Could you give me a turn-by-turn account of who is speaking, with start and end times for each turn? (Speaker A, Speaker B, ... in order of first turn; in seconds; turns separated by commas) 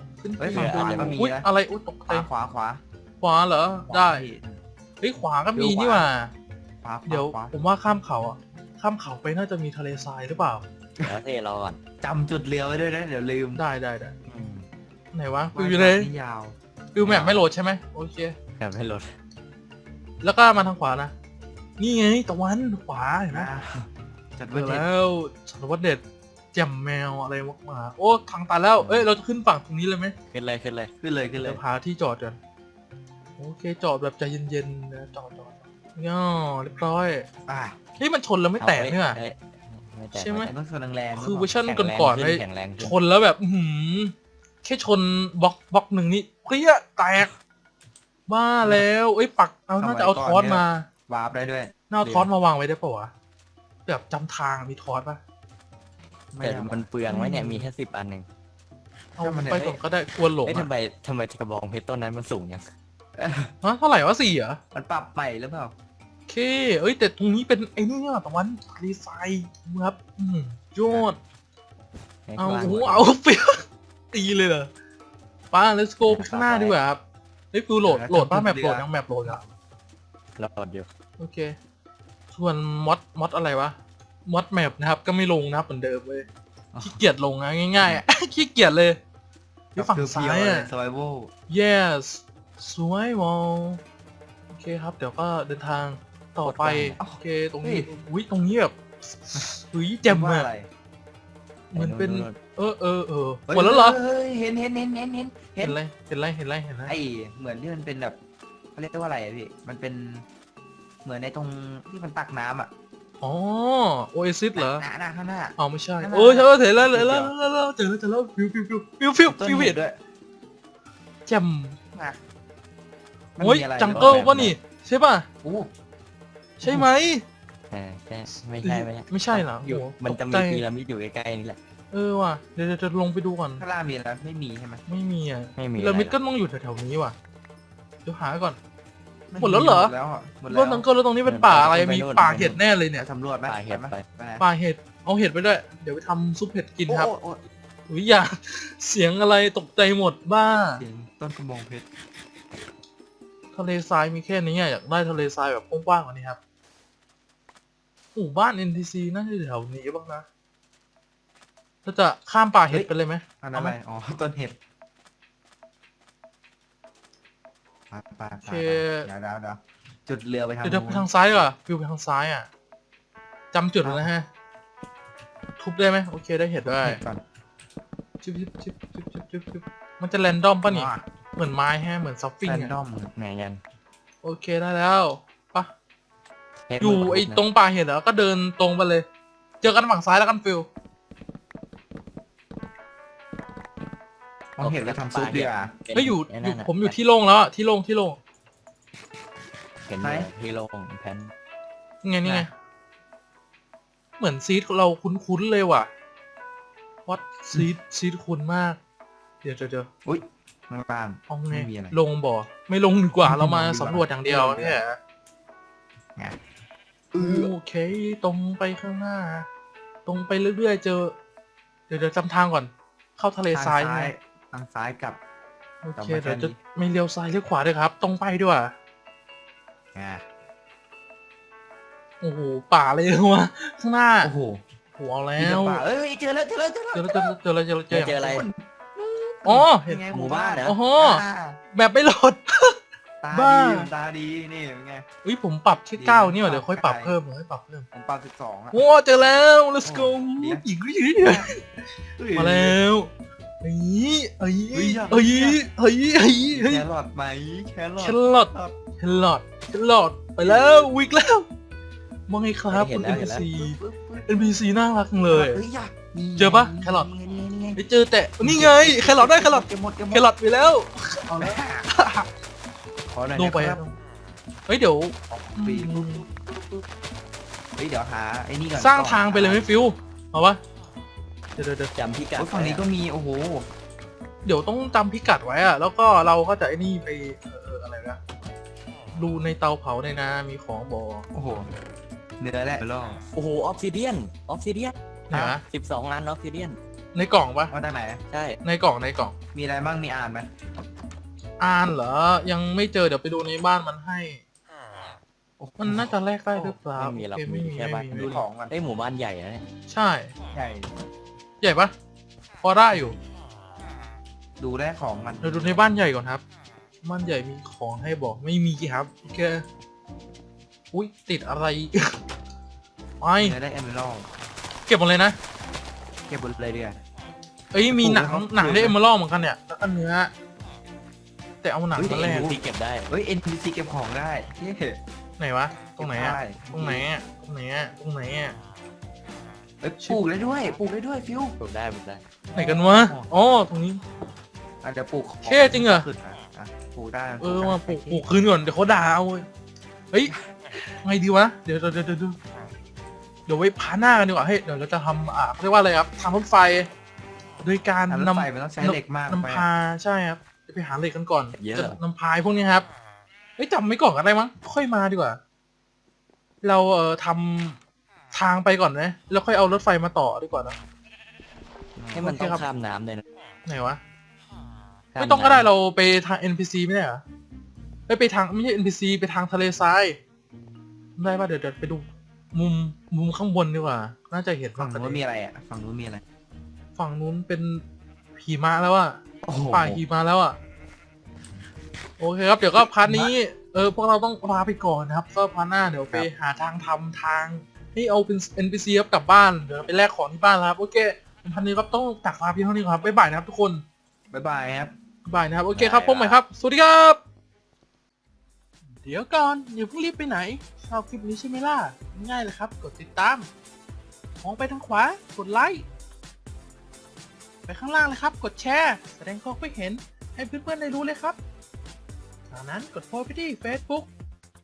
Speaker A: 0.2-2.3, Speaker B: 0.4-1.5, Speaker C: 0.5-1.2, Speaker B: 2.1-2.8, Speaker A: 3.2-4.3, Speaker B: 3.9-4.6, Speaker A: 5.0-6.3, Speaker B: 5.5-6.1, Speaker B: 6.8-7.5, Speaker A: 7.1-10.6, Speaker C: 11.0-11.8, Speaker B: 12.0-13.6, Speaker A: 13.6-14.2, Speaker C: 14.3-14.7, Speaker A: 15.1-16.1, Speaker B: 15.5-16.6, Speaker A: 16.9-18.4, Speaker C: 17.0-17.4, Speaker C: 18.6-19.1, Speaker A: 20.2-21.1, Speaker A: 21.8-23.5, Speaker B: 23.3-23.8, Speaker B: 24.4-24.9, Speaker A: 24.5-26.0, Speaker A: 26.5-30.1, Speaker C: 28.8-29.1, Speaker C: 30.3-30.9, Speaker B: 31.0-31.6, Speaker A: 31.4-32.4, Speaker A: 33.4-37.3, Speaker B: 37.5-37.8, Speaker A: 38.0-39.2, Speaker C: 38.6-40.5, Speaker A: 40.1-40.5, Speaker B: 40.4-41.5, Speaker A: 41.1-47.3, Speaker C: 41.6-43.0, Speaker A: 48.3-50.9, Speaker B: 49.8-51.7, Speaker A: 51.9-53.1, Speaker C: 52.0-52.3, Speaker A: 53.9-55.2, Speaker B: 56.3-56.9, Speaker C: 56.4-58.3, Speaker A: 57.1-57.7, Speaker A: 59.2-60.7, Speaker B: 59.2-59.7, Speaker C: 59.5-59.8, Speaker C: 60.4-62.7, Speaker B: 63.1-63.5, Speaker A: 63.6-64.6, Speaker B: 64.7-65.7, Speaker A: 66.3-71.2, Speaker C: 72.3-73.1, Speaker A: 72.4-74.7, Speaker A: 75.5-77.0, Speaker C: 76.0-76.8, Speaker A: 77.5-79.4, Speaker B: 77.8-79.4, Speaker C: 80.4-80.9, Speaker A: 81.2-81.5, Speaker A: 82.3-86.3, Speaker B: 86.7-87.0, Speaker A: 86.8-89.0, Speaker A: 89.8-90.7, Speaker B: 89.8-91.3, Speaker A: 91.5-93.8, Speaker A: 94.5-100.5, Speaker C: 96.4-97.0, Speaker B: 97.0-97.9, Speaker B: 100.1-100.7, Speaker A: 101.7-104.0, Speaker C: 101.7-102.4, Speaker B: 103.5-105.8, Speaker A: 105.6-107.0, Speaker B: 106.8-108.2, Speaker B: 108.8-110.3, Speaker B: 111.0-112.7, Speaker A: 113.2-114.9, Speaker B: 114.5-117.3, Speaker A: 115.6-119.8, Speaker B: 119.3-120.0, Speaker A: 121.3-121.8, Speaker B: 121.9-122.2, Speaker B: 123.4-124.5, Speaker A: 123.4-125.3, Speaker C: 123.9-124.5, Speaker B: 125.4-125.7, Speaker A: 126.6-127.2, Speaker C: 127.7-131.6, Speaker A: 128.6-130.6, Speaker A: 131.9-133.6, Speaker B: 133.6-134.8, Speaker A: 134.9-137.2, Speaker C: 135.6-136.2, Speaker A: 138.1-138.6, Speaker B: 139.3-140.9, Speaker A: 139.4-139.9, Speaker A: 140.5-143.1, Speaker C: 141.3-142.6, Speaker B: 143.0-144.4, Speaker C: 143.5-144.0, Speaker A: 144.4-147.1, Speaker B: 146.9-147.4, Speaker A: 147.9-150.8, Speaker B: 150.8-151.9, Speaker A: 153.5-156.4, Speaker A: 158.2-160.2, Speaker A: 161.8-163.8, Speaker B: 162.7-164.6, Speaker B: 167.9-171.1, Speaker A: 168.4-169.1, Speaker A: 170.6-172.5, Speaker A: 173.5-174.3, Speaker B: 173.8-174.1, Speaker A: 175.6-177.0, Speaker B: 176.6-177.2, Speaker A: 178.2-182.8, Speaker B: 180.7-181.0, Speaker B: 182.4-183.1, Speaker C: 183.2-183.6, Speaker A: 184.2-185.7, Speaker C: 186.7-187.4, Speaker A: 186.8-189.1, Speaker A: 189.6-190.7, Speaker B: 194.6-195.8, Speaker C: 194.6-197.0, Speaker A: 195.9-198.2, Speaker C: 199.9-201.3, Speaker B: 200.0-200.3, Speaker A: 202.0-202.5, Speaker A: 204.2-205.9, Speaker A: 207.1-208.8, Speaker A: 209.4-209.9, Speaker B: 210.1-212.0, Speaker A: 211.3-215.0, Speaker B: 213.2-214.8, Speaker B: 217.1-217.5, Speaker A: 217.2-219.5, Speaker A: 220.1-221.2, Speaker A: 221.9-224.1, Speaker B: 223.5-225.2, Speaker A: 225.8-228.8, Speaker B: 226.0-226.6, Speaker B: 229.9-230.2, Speaker A: 232.2-234.3, Speaker B: 234.2-234.6, Speaker A: 235.0-235.8, Speaker B: 235.4-237.4, Speaker A: 236.9-238.3, Speaker C: 237.9-238.5, Speaker B: 238.2-241.6, Speaker A: 239.4-240.1, Speaker C: 240.1-240.8, Speaker A: 240.6-242.8, Speaker B: 243.2-245.1, Speaker A: 243.3-243.9, Speaker A: 245.2-247.9, Speaker B: 246.0-247.2, Speaker B: 247.9-248.8, Speaker A: 248.7-251.7, Speaker B: 249.8-250.7, Speaker B: 251.2-251.5, Speaker B: 252.2-252.8, Speaker A: 252.3-256.9, Speaker B: 254.7-255.6, Speaker B: 256.5-258.8, Speaker A: 258.0-261.5, Speaker B: 260.4-261.1, Speaker A: 262.3-265.6, Speaker C: 262.7-263.4, Speaker B: 263.1-264.6, Speaker B: 265.3-267.8, Speaker A: 266.4-267.1, Speaker A: 267.8-272.3, Speaker B: 268.4-270.3, Speaker B: 271.3-271.9, Speaker B: 273.1-273.8, Speaker A: 273.3-273.9, Speaker A: 274.7-276.3, Speaker B: 275.3-276.8, Speaker B: 277.8-279.7, Speaker A: 278.7-280.6, Speaker A: 281.6-281.9, Speaker C: 281.9-282.8, Speaker B: 282.4-283.7, Speaker A: 284.4-288.2, Speaker A: 289.1-291.3, Speaker B: 291.3-291.7, Speaker B: 292.4-293.2, Speaker C: 293.3-294.9, Speaker A: 295.3-295.6, Speaker B: 295.3-295.6, Speaker C: 295.7-296.8, Speaker A: 297.1-297.7, Speaker B: 297.7-298.2, Speaker C: 298.3-298.6, Speaker A: 298.6-299.4, Speaker B: 299.5-300.5, Speaker A: 301.6-304.4, Speaker B: 305.6-306.8, Speaker A: 305.8-308.4, Speaker C: 307.0-309.6, Speaker B: 308.1-308.8, Speaker A: 309.9-310.3, Speaker B: 310.5-310.9, Speaker A: 311.6-311.9, Speaker A: 312.6-313.2, Speaker B: 314.6-315.9, Speaker A: 315.4-316.4, Speaker A: 317.0-319.6, Speaker A: 320.9-322.2, Speaker A: 323.2-323.6, Speaker B: 323.4-324.3, Speaker A: 324.9-325.4, Speaker B: 326.3-327.0, Speaker A: 327.7-330.3, Speaker B: 327.9-329.0, Speaker A: 331.6-332.6, Speaker B: 332.0-335.0, Speaker C: 332.2-333.1, Speaker A: 335.4-338.6, Speaker B: 336.0-337.1, Speaker B: 339.8-341.6, Speaker C: 341.6-342.2, Speaker B: 342.5-343.3, Speaker A: 342.5-344.0, Speaker B: 344.8-348.3, Speaker A: 345.4-346.1, Speaker A: 347.4-349.5, Speaker A: 351.0-352.4, Speaker A: 353.5-356.9, Speaker A: 357.6-362.9, Speaker B: 358.1-359.7, Speaker C: 361.6-362.0, Speaker A: 363.6-365.4, Speaker A: 366.6-367.8, Speaker A: 368.3-370.8, Speaker B: 372.0-372.3, Speaker A: 372.1-372.6, Speaker C: 372.2-373.2, Speaker A: 373.7-374.0, Speaker C: 375.1-375.7, Speaker A: 375.2-377.2, Speaker A: 378.1-380.2, Speaker A: 381.2-385.2, Speaker B: 384.8-386.2, Speaker A: 387.0-387.8, Speaker A: 388.4-390.6, Speaker B: 389.4-390.0, Speaker A: 392.2-403.8, Speaker B: 393.0-393.3, Speaker B: 404.3-404.9, Speaker A: 405.3-407.2, Speaker C: 405.7-406.4, Speaker A: 409.0-413.5, Speaker A: 414.4-415.9, Speaker A: 417.7-421.4, Speaker A: 422.5-424.1